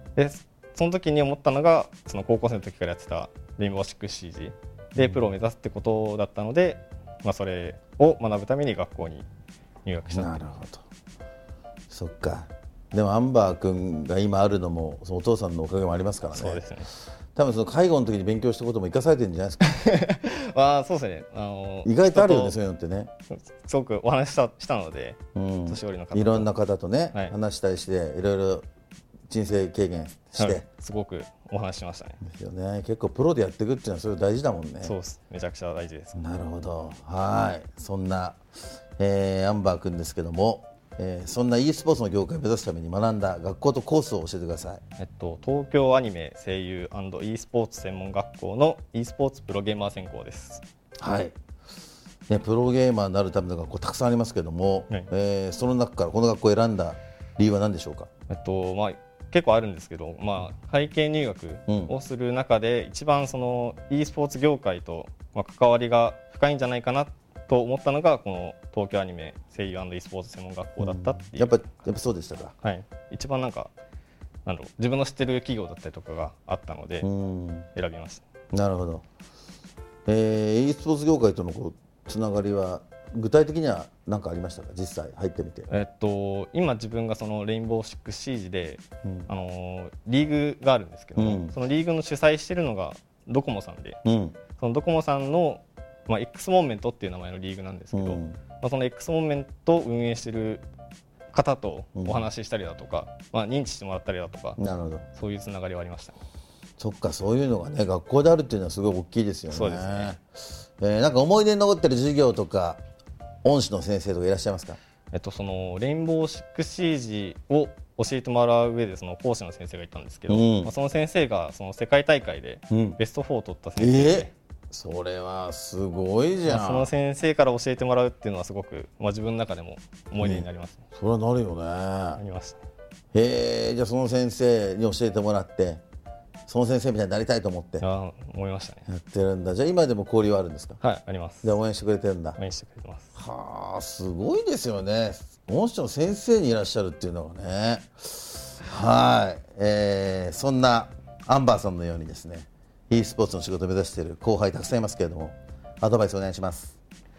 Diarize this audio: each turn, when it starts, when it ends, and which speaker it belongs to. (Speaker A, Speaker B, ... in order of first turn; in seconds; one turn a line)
Speaker A: 0.1-9.3
Speaker B: 5.0-5.2
Speaker A: 9.8-10.4
Speaker B: 10.1-10.8
Speaker B: 11.9-16.7
Speaker A: 16.3-16.9
Speaker B: 17.3-19.6
Speaker A: 19.6-22.6
Speaker B: 21.8-23.1
Speaker A: 23.3-26.5
Speaker B: 25.3-28.6
Speaker B: 29.3-30.6
Speaker A: 30.4-32.2
Speaker B: 32.2-35.0
Speaker A: 34.8-36.2
Speaker B: 36.1-38.4
Speaker B: 39.0-44.8
Speaker A: 45.0-50.6
Speaker B: 51.0-51.3
Speaker B: 52.3-58.1
Speaker A: 58.3-71.5
Speaker B: 61.7-61.9
Speaker B: 70.8-72.5
Speaker A: 72.6-73.7
Speaker A: 74.5-77.1
Speaker B: 77.0-77.7
Speaker A: 77.7-78.2
Speaker B: 78.5-79.0
Speaker B: 80.0-85.7
Speaker A: 85.7-94.0
Speaker B: 89.0-89.3
Speaker B: 91.2-91.5
Speaker B: 94.0-94.4
Speaker A: 94.6-100.6
Speaker B: 97.9-98.4
Speaker A: 101.3-104.6
Speaker B: 102.0-102.3
Speaker B: 104.6-105.0
Speaker A: 105.1-106.2
Speaker B: 106.8-110.2
Speaker A: 109.5-110.2
Speaker B: 110.8-112.8
Speaker B: 113.4-114.8
Speaker A: 115.1-124.3
Speaker B: 120.3-120.7
Speaker B: 122.7-123.0
Speaker B: 123.8-126.9
Speaker A: 126.4-130.8
Speaker B: 130.2-132.2
Speaker A: 132.2-132.6
Speaker B: 133.1-135.8
Speaker B: 136.5-137.8
Speaker A: 137.8-138.8
Speaker B: 138.9-140.8
Speaker A: 140.8-141.5
Speaker B: 141.4-142.4
Speaker A: 142.4-143.1
Speaker B: 143.1-156.8